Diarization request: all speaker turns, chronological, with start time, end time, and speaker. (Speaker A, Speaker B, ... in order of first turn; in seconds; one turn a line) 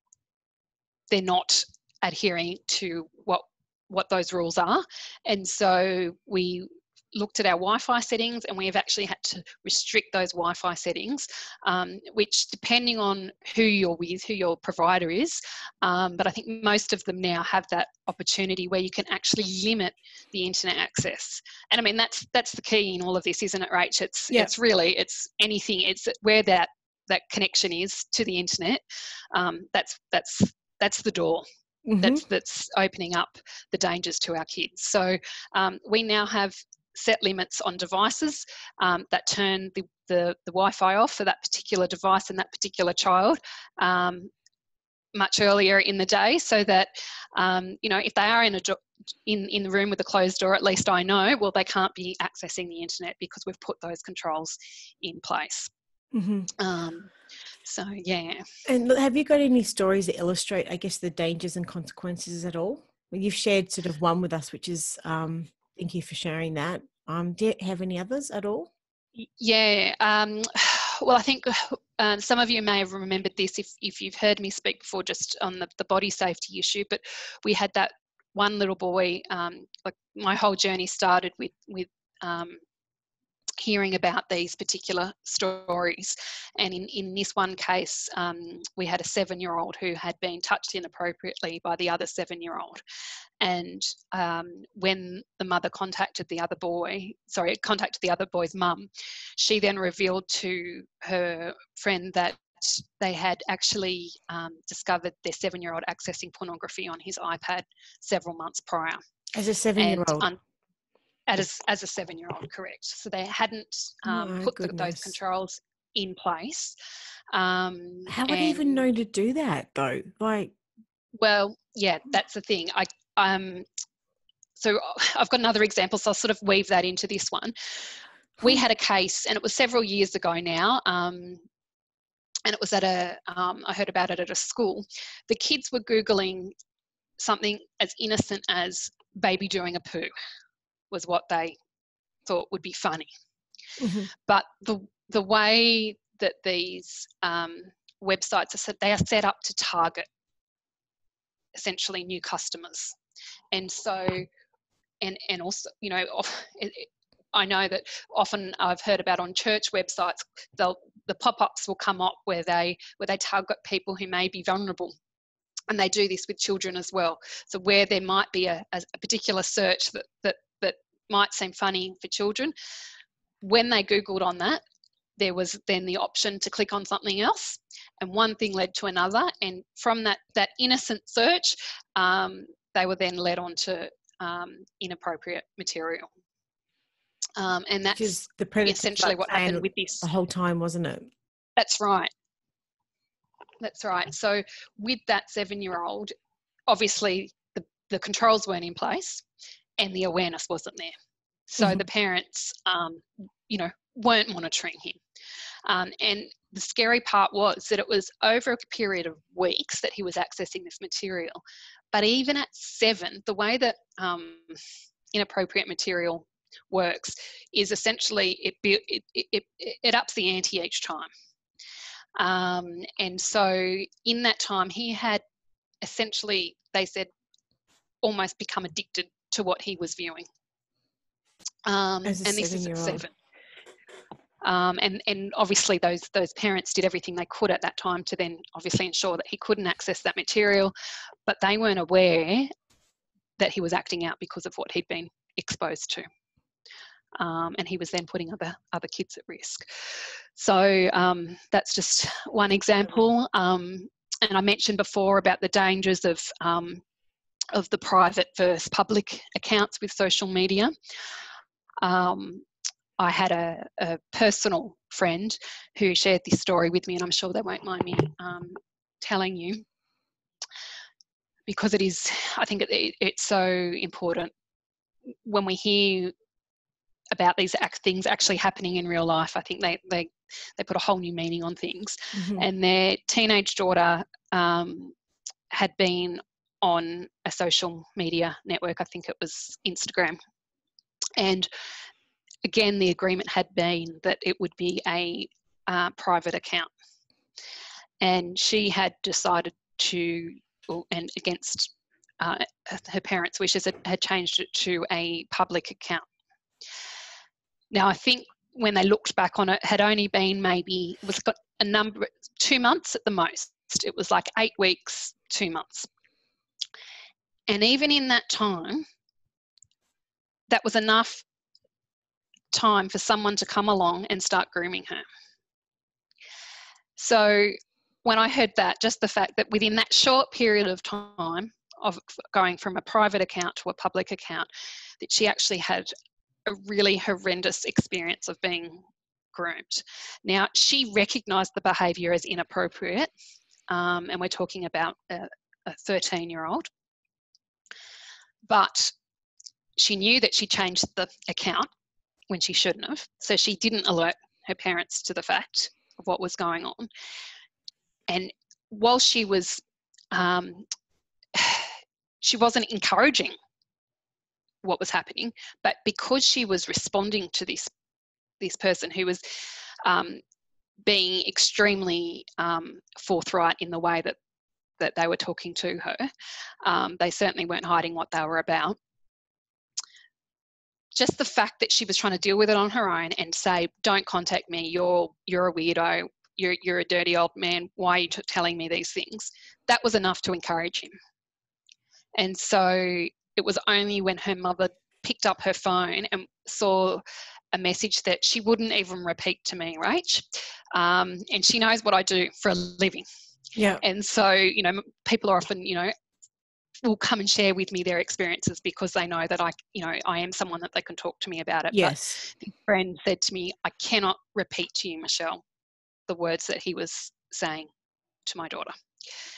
Speaker A: 1.1-31.5
Speaker B: 31.9-32.2
Speaker A: 32.0-44.3
Speaker A: 45.1-55.7
Speaker B: 56.1-56.5
Speaker A: 56.6-57.1
Speaker A: 57.6-58.5
Speaker B: 58.7-68.7
Speaker A: 69.2-82.6
Speaker A: 83.6-92.8
Speaker A: 93.4-109.0
Speaker B: 109.3-110.3
Speaker A: 109.8-110.4
Speaker A: 111.3-116.8
Speaker B: 114.1-115.1
Speaker A: 117.3-118.9
Speaker B: 118.1-120.5
Speaker A: 121.1-123.7
Speaker A: 124.6-127.5
Speaker A: 128.4-131.4
Speaker A: 132.5-136.5
Speaker A: 137.2-140.1
Speaker A: 140.9-141.6
Speaker A: 142.3-143.1
Speaker B: 143.8-144.1
Speaker A: 144.2-150.1
Speaker A: 151.5-153.0
Speaker A: 153.5-154.3
Speaker A: 155.0-164.9
Speaker A: 165.7-172.5
Speaker A: 173.4-174.6
Speaker A: 175.2-186.1
Speaker A: 187.4-190.0
Speaker B: 187.9-191.1
Speaker A: 191.6-192.1
Speaker A: 193.6-196.1
Speaker A: 196.7-199.2
Speaker A: 199.8-200.9
Speaker A: 201.5-205.0
Speaker A: 205.7-211.4
Speaker A: 211.9-214.6
Speaker A: 215.1-221.1
Speaker A: 222.2-225.2
Speaker A: 225.8-227.1
Speaker A: 228.0-230.3
Speaker A: 231.7-233.1
Speaker B: 232.1-233.1
Speaker A: 234.4-240.7
Speaker A: 241.3-242.5
Speaker A: 243.4-246.0
Speaker A: 247.2-256.8
Speaker A: 257.5-260.7
Speaker A: 261.8-262.4
Speaker A: 263.0-269.6
Speaker A: 271.5-274.3
Speaker A: 275.2-276.1
Speaker A: 277.1-284.9
Speaker B: 282.1-282.4
Speaker A: 285.5-290.2
Speaker A: 291.2-291.5
Speaker A: 292.4-296.7
Speaker A: 298.0-306.1
Speaker A: 307.7-315.9
Speaker A: 317.5-318.8
Speaker A: 320.5-321.2
Speaker A: 322.5-325.1
Speaker A: 327.0-334.5
Speaker A: 335.0-335.9
Speaker A: 336.5-343.1
Speaker A: 343.7-346.7
Speaker A: 348.4-348.9
Speaker A: 349.8-351.7
Speaker A: 352.3-356.9
Speaker A: 358.1-360.7
Speaker A: 361.3-363.4
Speaker A: 364.6-367.7
Speaker A: 368.4-369.2
Speaker A: 369.8-370.2
Speaker A: 370.8-374.2
Speaker A: 374.8-376.1
Speaker A: 376.6-378.8
Speaker A: 380.9-390.9
Speaker A: 392.2-403.1
Speaker B: 403.6-403.8
Speaker A: 403.8-405.9
Speaker A: 406.8-415.4
Speaker B: 411.7-412.2
Speaker A: 416.1-417.7
Speaker A: 418.3-418.7